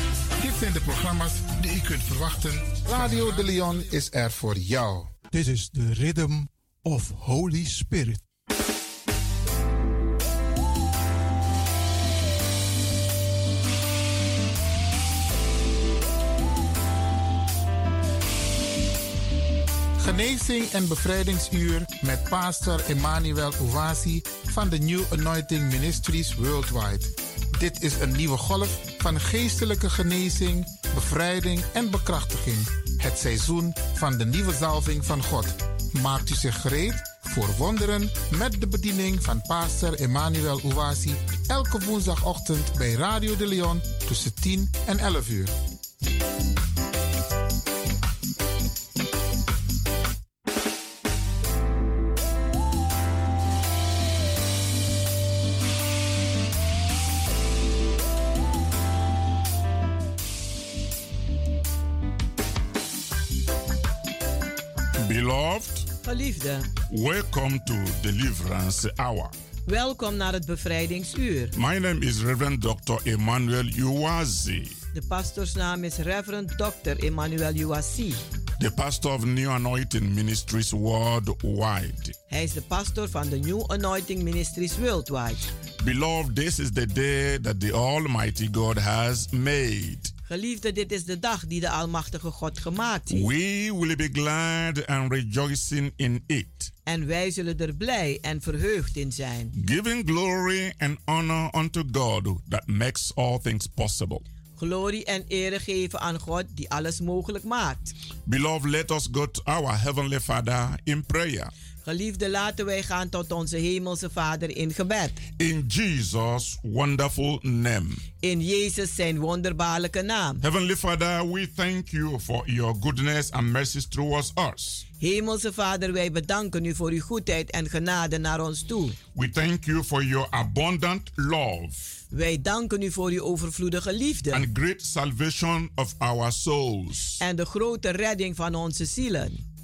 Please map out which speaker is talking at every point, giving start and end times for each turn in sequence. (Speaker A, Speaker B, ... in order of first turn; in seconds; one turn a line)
Speaker A: 0.4-5.1
Speaker B: 5.3-8.2
Speaker A: 20.0-45.6
Speaker C: 65.0-65.9
Speaker D: 66.0-66.7
Speaker C: 66.9-69.3
Speaker D: 69.7-71.5
Speaker C: 71.5-74.8
Speaker D: 74.9-78.2
Speaker C: 78.6-82.2
Speaker D: 82.3-85.4
Speaker C: 85.8-90.1
Speaker D: 90.3-93.3
Speaker C: 93.1-96.7
Speaker D: 96.9-99.5
Speaker C: 99.5-104.2
Speaker D: 104.6-107.9
Speaker C: 108.3-111.5
Speaker D: 111.8-115.2
Speaker C: 115.4-118.0
Speaker D: 118.2-120.4
Speaker C: 120.4-124.8
Speaker D: 125.0-129.0
Speaker C: 129.2-131.8
Speaker D: 132.1-134.4
Speaker C: 134.3-137.2
Speaker D: 137.2-139.4